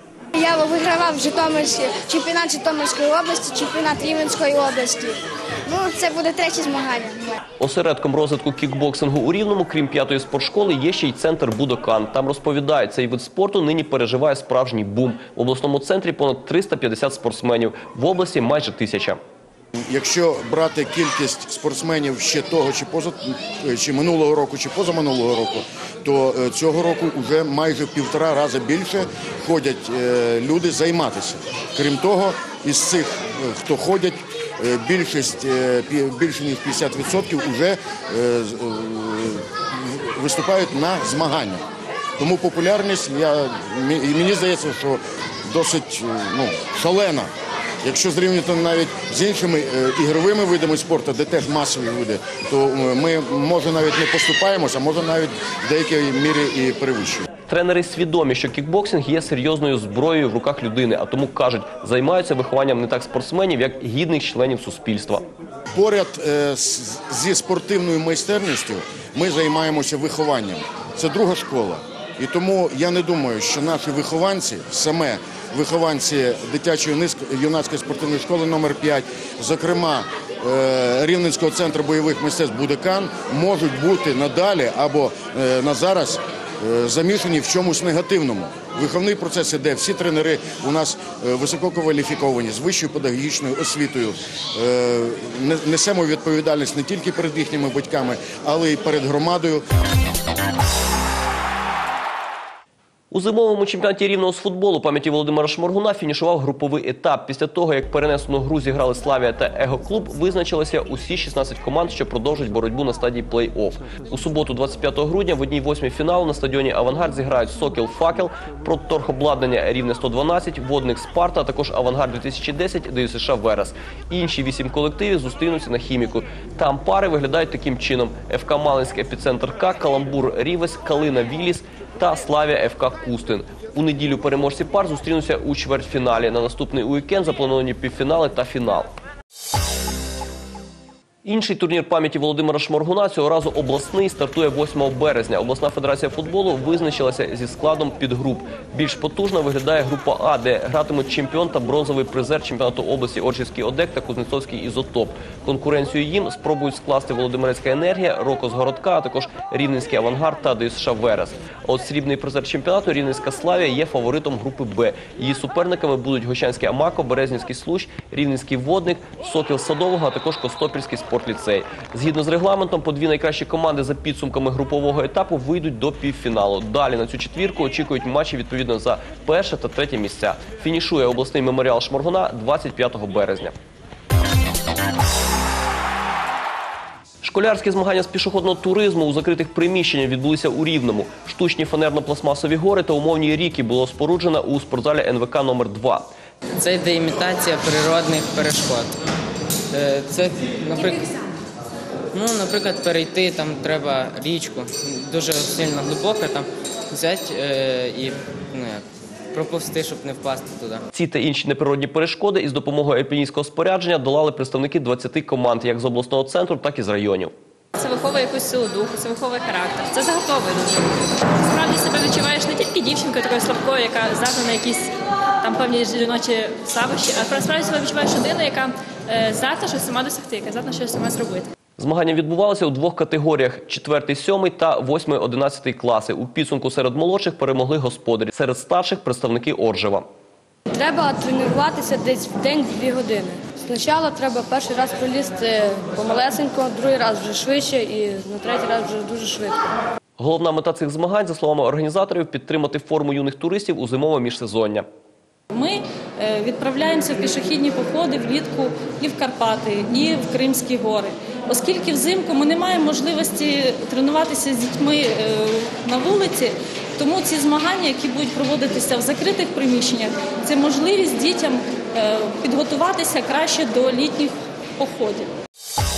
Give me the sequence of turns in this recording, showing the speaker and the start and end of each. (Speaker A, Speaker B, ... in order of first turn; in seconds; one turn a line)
Speaker A: 0.3-7.4
Speaker B: 7.6-19.2
Speaker C: 19.9-41.6
Speaker C: 42.2-47.3
Speaker C: 47.8-57.2
Speaker B: 57.5-65.2
Speaker C: 65.7-99.6
Speaker B: 103.1-138.9
Speaker B: 141.2-183.5
Speaker B: 187.2-196.1
Speaker D: 196.6-198.9
Speaker D: 199.7-201.0
Speaker D: 202.1-208.8
Speaker D: 209.3-210.8
Speaker B: 210.9-217.3
Speaker E: 217.8-224.9
Speaker E: 225.4-231.5
Speaker B: 231.8-240.1
Speaker F: 240.7-249.6
Speaker B: 250.2-254.9
Speaker G: 255.5-275.3